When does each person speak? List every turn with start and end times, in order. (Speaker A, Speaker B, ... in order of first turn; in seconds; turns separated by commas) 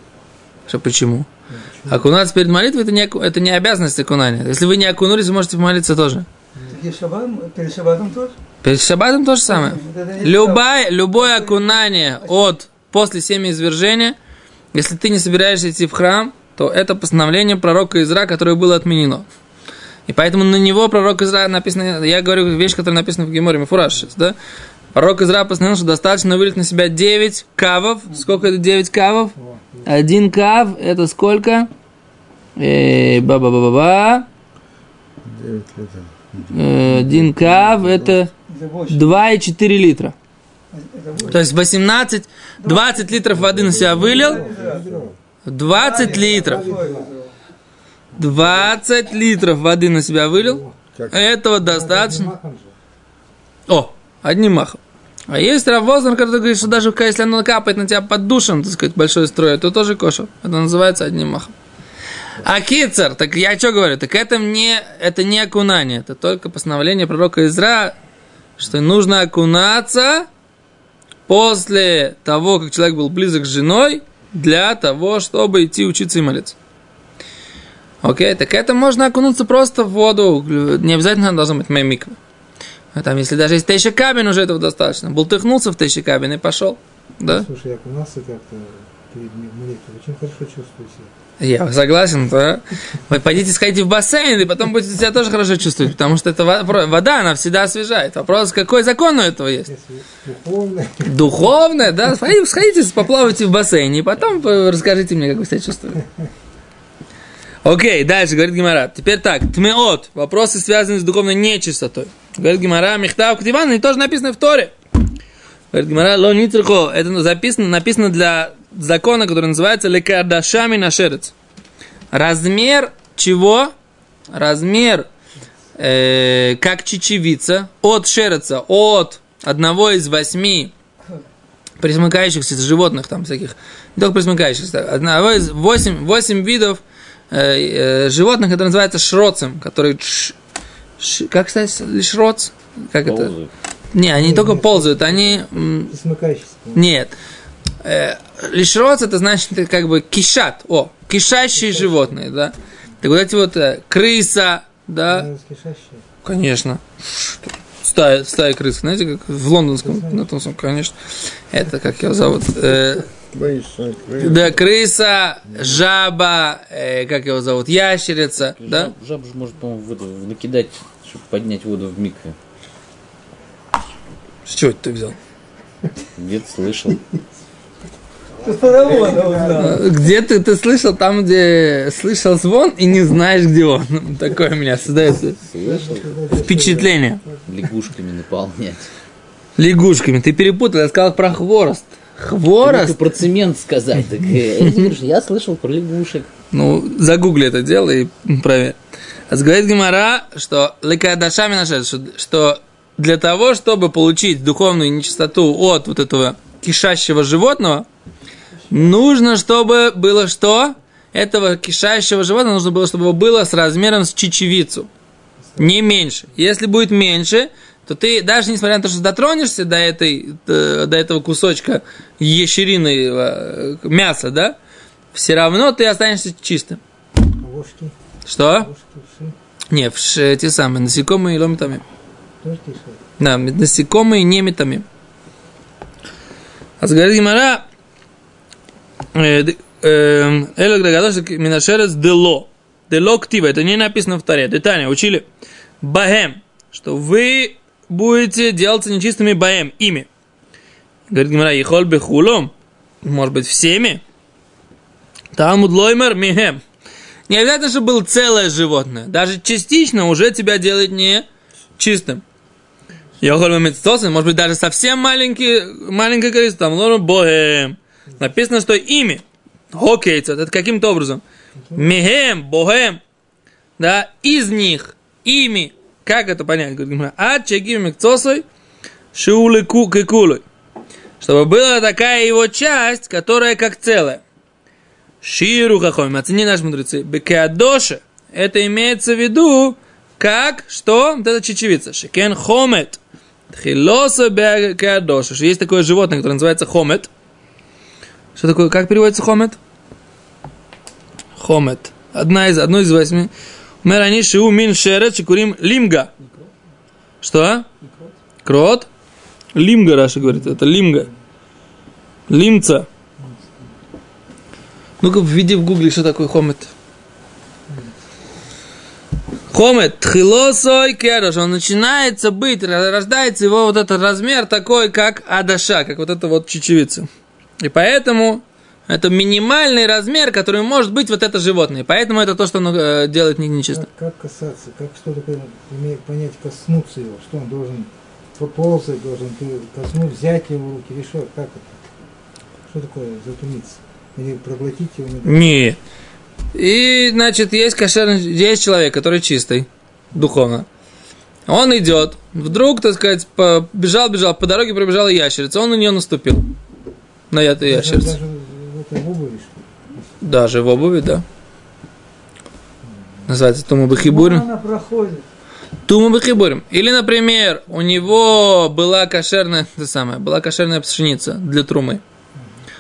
Speaker A: 0.7-1.3, Speaker B: 1.5-2.1, Speaker A: 1.9-6.3, Speaker C: 6.7-8.4, Speaker A: 8.6-14.2, Speaker C: 9.5-10.6, Speaker C: 11.2-12.4, Speaker A: 14.7-19.3, Speaker A: 20.1-24.4, Speaker A: 24.9-29.3, Speaker B: 29.4-30.0, Speaker A: 29.9-31.7, Speaker A: 32.6-34.3, Speaker D: 35.2-38.2, Speaker A: 36.5-38.3, Speaker C: 38.5-39.1, Speaker A: 38.9-40.1, Speaker C: 40.7-41.4, Speaker A: 41.3-44.4, Speaker C: 42.6-43.4, Speaker D: 43.3-45.2, Speaker B: 43.7-45.1, Speaker C: 43.9-44.9, Speaker A: 45.5-46.7, Speaker C: 45.6-47.3, Speaker B: 45.9-47.1, Speaker B: 48.1-48.8, Speaker A: 48.2-52.3, Speaker B: 50.4-50.8, Speaker D: 50.9-51.3, Speaker B: 51.6-52.7, Speaker A: 53.7-61.5, Speaker A: 62.4-68.0, Speaker A: 68.6-70.3, Speaker A: 71.3-76.6, Speaker A: 78.0-82.2, Speaker A: 82.9-87.5, Speaker B: 87.3-91.1, Speaker A: 91.4-99.7, Speaker B: 99.7-101.2, Speaker A: 101.0-106.0, Speaker A: 107.6-114.7, Speaker A: 115.7-121.3, Speaker A: 122.1-123.7, Speaker A: 124.3-125.1, Speaker A: 125.8-130.7, Speaker A: 131.8-140.3, Speaker A: 141.0-143.3, Speaker E: 143.1-143.5, Speaker A: 143.9-145.9, Speaker B: 144.2-146.9, Speaker A: 146.8-147.1, Speaker A: 147.8-155.3, Speaker B: 151.5-152.2, Speaker B: 155.1-156.1, Speaker A: 156.2-161.0, Speaker B: 159.8-160.3, Speaker A: 161.5-163.1, Speaker D: 163.3-164.6, Speaker A: 164.2-168.9, Speaker D: 165.5-165.8, Speaker E: 168.6-172.3, Speaker A: 174.5-175.2, Speaker E: 176.2-177.0, Speaker C: 178.4-179.8, Speaker B: 178.7-179.9, Speaker A: 179.6-185.4, Speaker E: 185.2-186.8, Speaker B: 185.6-187.4, Speaker A: 186.4-187.2, Speaker E: 187.5-188.9, Speaker A: 189.6-193.0, Speaker E: 192.6-196.3, Speaker A: 196.5-198.8, Speaker A: 199.3-207.9, Speaker A: 208.7-214.9, Speaker B: 215.4-215.7, Speaker A: 215.6-224.6, Speaker A: 225.1-226.8, Speaker B: 227.4-227.9, Speaker A: 228.3-228.7, Speaker B: 228.5-229.3, Speaker A: 229.7-231.8, Speaker B: 232.4-233.0, Speaker A: 233.2-234.8, Speaker A: 236.8-237.7, Speaker A: 239.1-245.3, Speaker A: 245.8-250.1, Speaker A: 251.1-252.5, Speaker A: 253.0-254.0, Speaker A: 255.3-256.6, Speaker A: 257.3-261.3, Speaker A: 261.8-262.2, Speaker A: 263.2-271.2, Speaker A: 271.8-273.0, Speaker A: 273.8-278.4, Speaker A: 279.1-280.4, Speaker A: 281.2-284.2, Speaker A: 285.2-293.0, Speaker A: 293.5-297.1, Speaker A: 298.4-299.6, Speaker A: 301.4-303.3, Speaker A: 303.8-306.1, Speaker A: 307.2-307.7, Speaker A: 308.4-308.9, Speaker A: 309.6-311.1, Speaker B: 310.2-310.6, Speaker A: 312.3-312.9, Speaker B: 313.2-313.7, Speaker A: 315.0-316.7, Speaker A: 319.5-327.1, Speaker A: 327.6-333.9, Speaker B: 333.7-341.9, Speaker B: 342.6-345.6, Speaker A: 345.2-345.8, Speaker A: 346.5-350.7, Speaker A: 351.5-356.5, Speaker A: 357.3-358.2, Speaker B: 357.6-360.0, Speaker A: 360.2-361.2, Speaker B: 362.8-363.3, Speaker A: 363.3-364.4, Speaker C: 363.9-365.2, Speaker A: 365.9-372.0